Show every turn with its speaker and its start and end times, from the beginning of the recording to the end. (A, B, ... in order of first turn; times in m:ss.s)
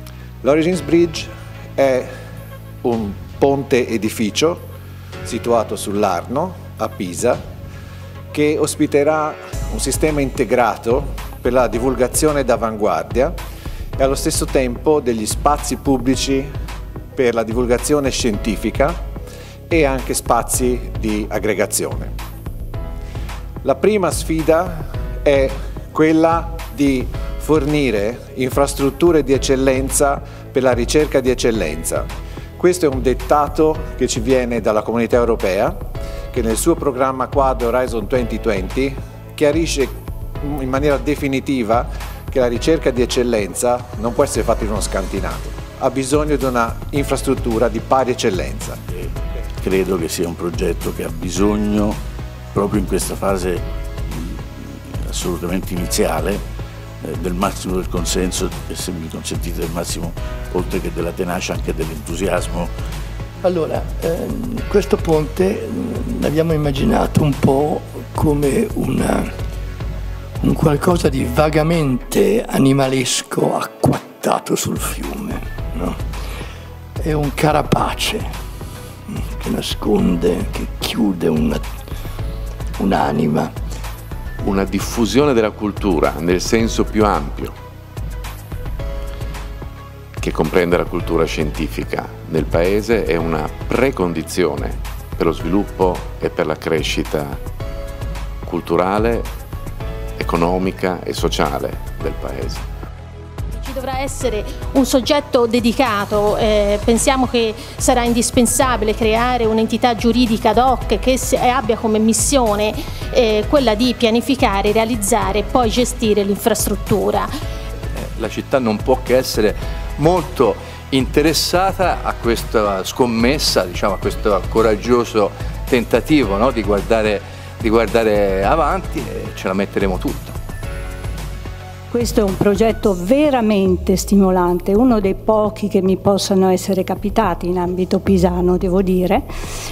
0:00.4-0:02.1 A
0:02.8-0:04.6 A
0:05.2-0:07.4 A
0:08.3-0:13.4 A
0:14.0-0:16.5 A
0:17.2-0:19.0 A
0:19.7-0:22.1 A
0:23.6-0:32.1 A
0:32.6-0:35.8 A
0:36.3-0:48.8 A
0:49.6-0:52.0 B
0:52.5-0:56.4 B
0:57.0-1:02.7 B
1:03.4-1:09.3 C
1:10.4-1:16.0 C
1:17.0-1:18.3 C
1:19.1-1:21.6 C
1:22.8-1:23.5 C
1:24.4-1:27.6 D
1:30.2-1:37.4 D
1:38.4-1:39.3 D
1:40.2-1:42.7 D
1:43.5-1:57.3 E
1:57.9-2:10.4 F
2:11.9-2:19.3 G